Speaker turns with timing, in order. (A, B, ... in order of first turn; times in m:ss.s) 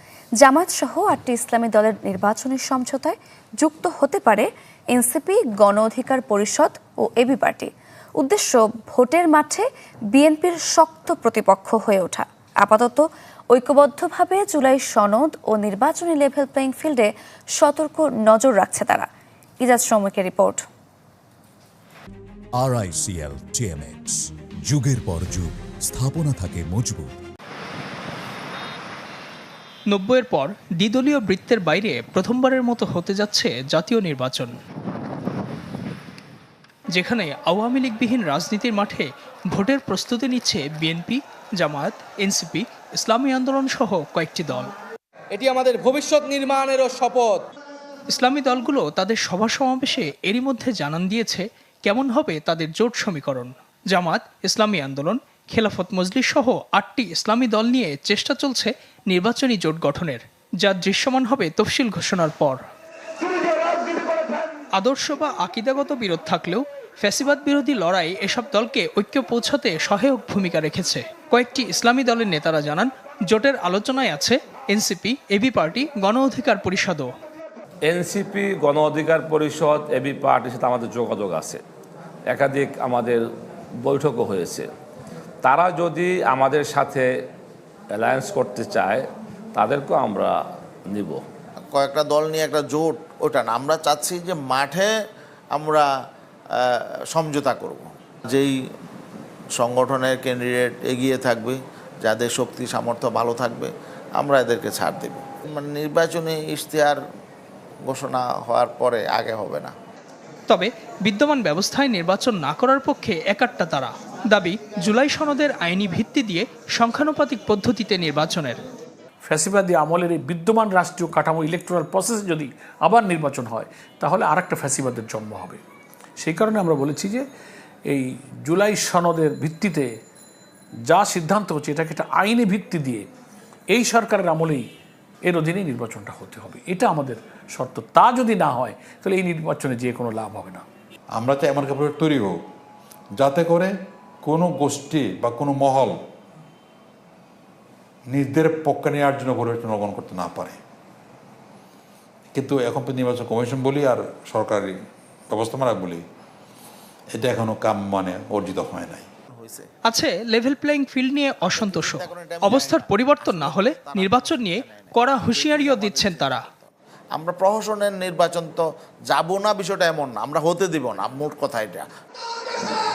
0:00.4-0:19.1 A
0:19.6-0:20.6 A
0:22.6-0:27.1 B
0:29.9-0:34.6 C
0:36.9-0:44.7 C
0:45.3-0:47.5 D
0:48.1-1:02.6 C
1:04.8-1:17.1 C
1:17.9-1:21.6 E
1:22.3-1:23.2 E
1:23.8-1:24.7 E
1:25.4-1:27.1 E
1:27.9-1:29.0 E
1:29.6-1:30.3 E
1:30.9-1:31.2 E
1:31.7-1:34.9 F
1:35.5-1:35.9 F
1:36.6-1:38.5 F
1:39.6-1:47.0 F
1:47.9-1:49.7 F
1:50.5-1:58.6 C
1:59.2-2:05.6 G
2:06.2-2:07.3 G
2:07.9-2:10.0 G
2:10.8-2:13.1 G
2:13.7-2:14.7 G
2:15.2-2:20.6 G
2:21.2-2:22.4 H
2:23.2-2:23.7 H
2:24.2-2:26.0 H
2:28.1-2:30.6 H
2:32.3-2:34.8 H
2:35.3-2:36.0 H
2:37.2-2:39.1 H
2:39.4-2:39.7 F
2:39.9-2:46.5 C
2:41.4-2:51.9 F